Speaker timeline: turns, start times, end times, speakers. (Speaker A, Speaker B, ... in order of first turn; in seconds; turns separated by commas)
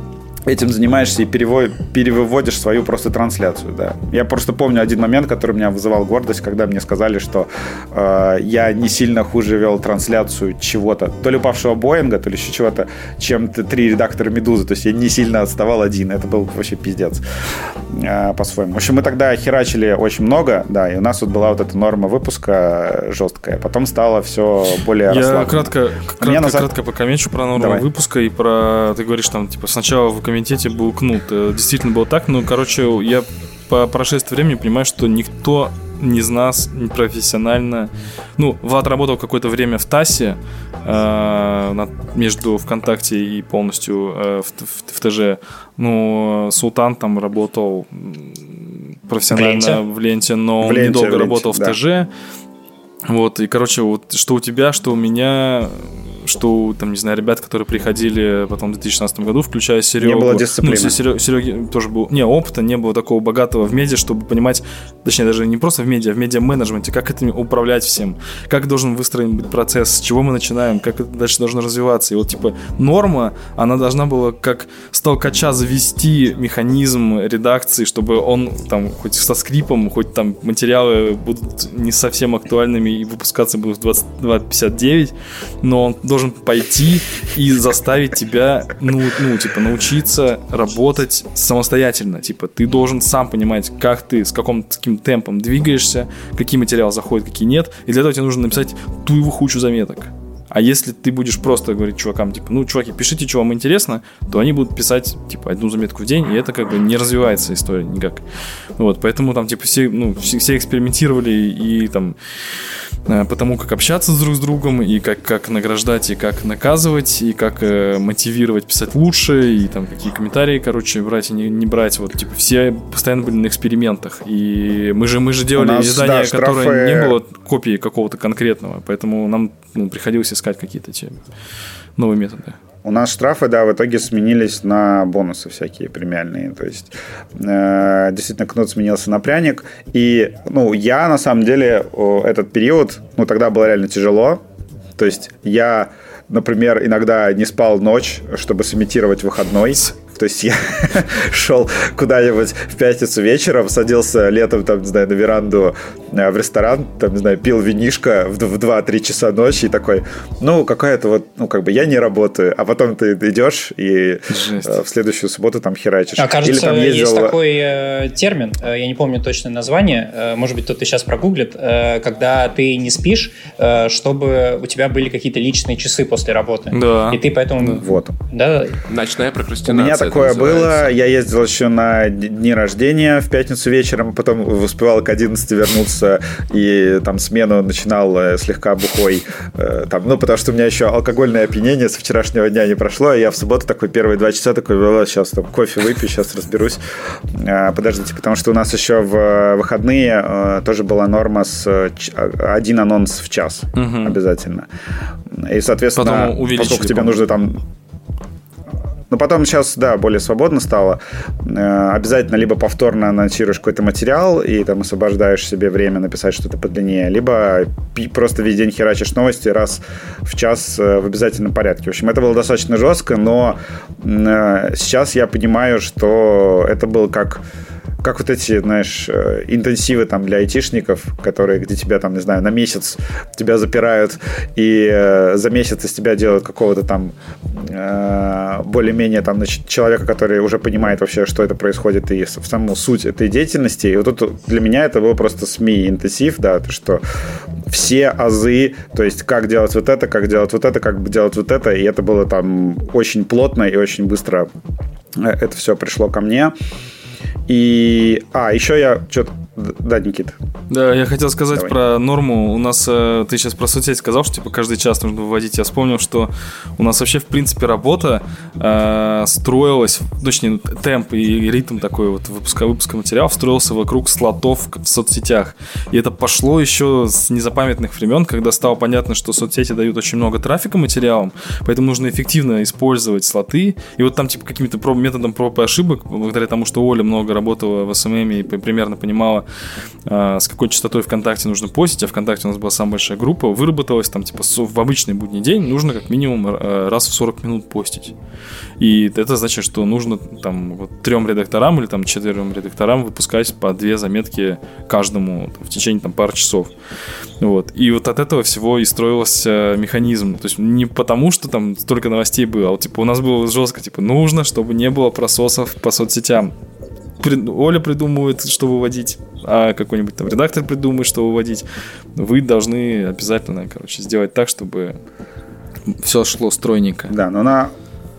Speaker A: 0.5-17.2, Speaker A: 17.9-26.7, Speaker B: 25.1-52.1, Speaker A: 27.5-27.9, Speaker C: 49.3-49.8, Speaker A: 50.6-51.8, Speaker B: 53.0-108.2, Speaker A: 60.0-61.0, Speaker B: 108.8-112.2, Speaker B: 113.0-131.2, Speaker A: 125.5-127.2, Speaker B: 132.0-132.6, Speaker A: 132.8-144.4, Speaker A: 144.9-167.4, Speaker B: 164.3-164.8, Speaker C: 166.2-178.8, Speaker B: 176.7-177.8, Speaker A: 177.8-178.1, Speaker D: 178.9-180.9, Speaker A: 179.7-204.7, Speaker B: 203.7-204.2, Speaker A: 205.3-207.6, Speaker B: 205.9-207.2, Speaker A: 209.1-227.4, Speaker A: 228.0-247.0, Speaker A: 247.7-254.5, Speaker A: 255.2-256.5, Speaker A: 257.5-260.4, Speaker B: 260.7-289.4, Speaker B: 290.1-298.1, Speaker B: 298.8-306.7, Speaker B: 307.4-316.5, Speaker B: 317.2-324.9, Speaker B: 325.9-327.1, Speaker A: 327.1-327.7